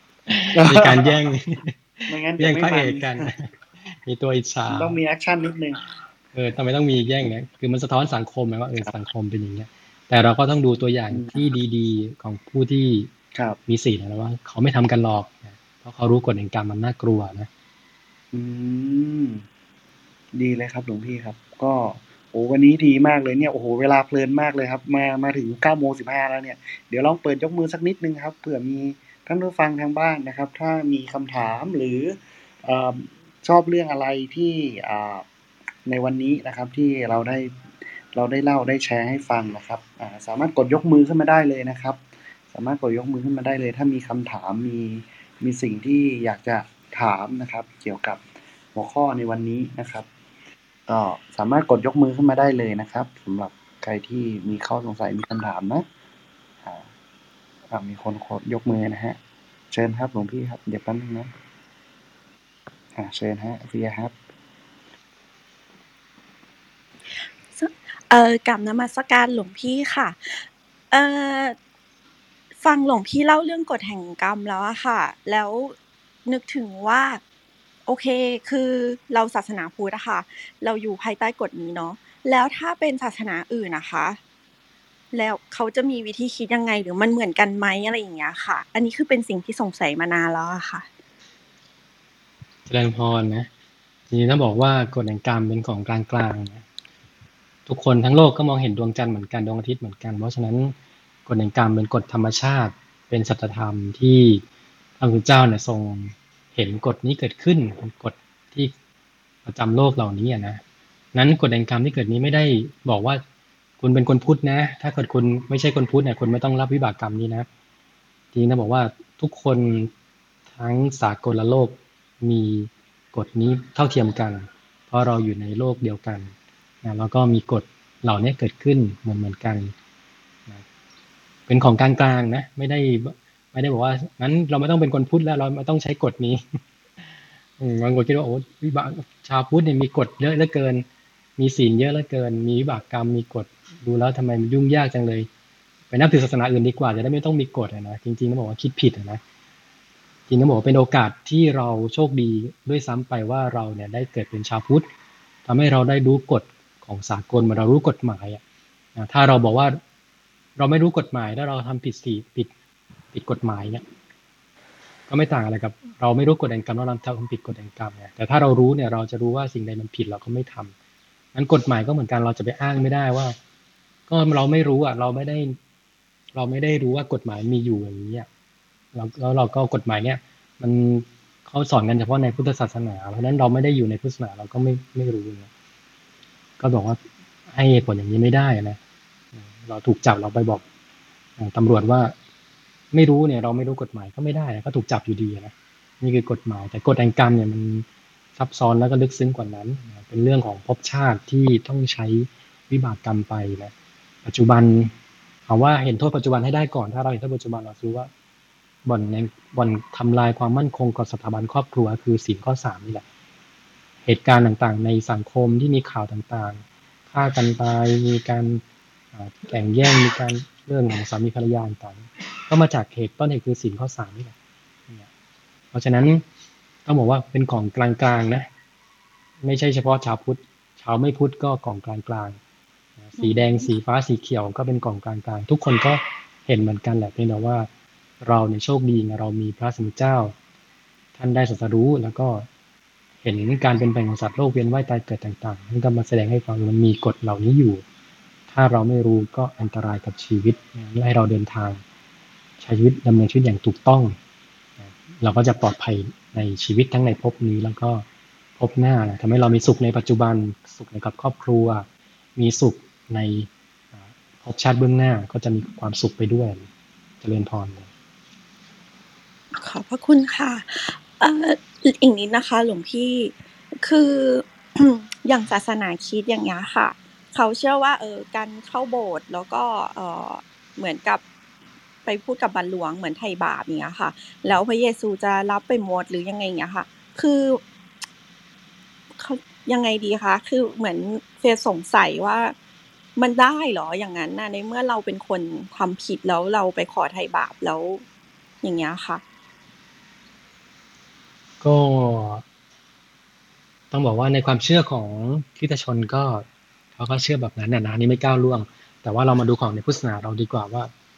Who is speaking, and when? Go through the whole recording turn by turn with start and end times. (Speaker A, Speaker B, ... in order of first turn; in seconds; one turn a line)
Speaker A: 0.3-5.0
Speaker B: 0.5-1.1
Speaker B: 2.1-3.3
Speaker B: 4.7-5.8
Speaker A: 6.3-13.1
Speaker B: 11.1-11.4
Speaker A: 13.7-17.5
Speaker B: 18.3-19.4
Speaker B: 20.3-35.2
Speaker B: 35.9-37.6
Speaker B: 38.1-42.0
Speaker B: 42.5-48.2
Speaker B: 48.7-50.0
Speaker B: 50.9-55.8
Speaker B: 57.7-59.2
Speaker B: 59.7-61.3
Speaker B: 62.9-64.1
Speaker C: 67.1-71.5
Speaker C: 72.6-77.2
Speaker C: 77.8-84.2
Speaker C: 85.1-90.8
Speaker A: 92.7-93.5
Speaker A: 94.1-96.6
Speaker A: 97.7-100.7
Speaker A: 101.3-104.4
Speaker A: 105.0-108.7
Speaker A: 109.4-110.6
Speaker A: 111.1-113.2
Speaker A: 113.8-117.5
Speaker A: 118.3-119.9
Speaker A: 120.5-129.7
Speaker A: 131.5-136.6
Speaker A: 137.6-140.8
Speaker A: 141.4-145.3
Speaker A: 145.9-149.2
Speaker A: 150.3-154.9
Speaker A: 155.4-158.4
Speaker A: 158.9-159.8
Speaker A: 160.6-162.5
Speaker A: 163.1-163.8
Speaker A: 165.1-170.7
Speaker A: 171.3-173.4
Speaker A: 174.1-175.6
Speaker A: 176.3-178.3
Speaker A: 178.9-185.5
Speaker A: 186.6-188.8
Speaker A: 189.3-190.6
Speaker A: 191.4-192.1
Speaker A: 192.9-197.8
Speaker A: 198.3-203.7
Speaker A: 204.2-204.9
Speaker A: 205.5-208.1
Speaker A: 208.8-213.0
Speaker A: 214.0-218.6
Speaker A: 219.1-224.3
Speaker A: 225.7-226.2
Speaker A: 226.8-228.5
Speaker A: 229.4-232.4
Speaker A: 233.0-237.7
Speaker C: 233.2-233.7
Speaker A: 238.2-240.3
Speaker A: 241.2-242.5
Speaker A: 243.2-247.8
Speaker A: 248.5-251.8
Speaker A: 252.6-254.2
Speaker A: 254.8-258.0
Speaker A: 258.6-266.6
Speaker A: 267.2-267.9
Speaker C: 269.6-281.2
Speaker C: 282.1-287.6
Speaker C: 289.2-292.5
Speaker C: 293.1-298.0
Speaker C: 298.6-299.2
Speaker A: 301.6-302.4
Speaker A: 303.9-306.4
Speaker A: 306.9-310.9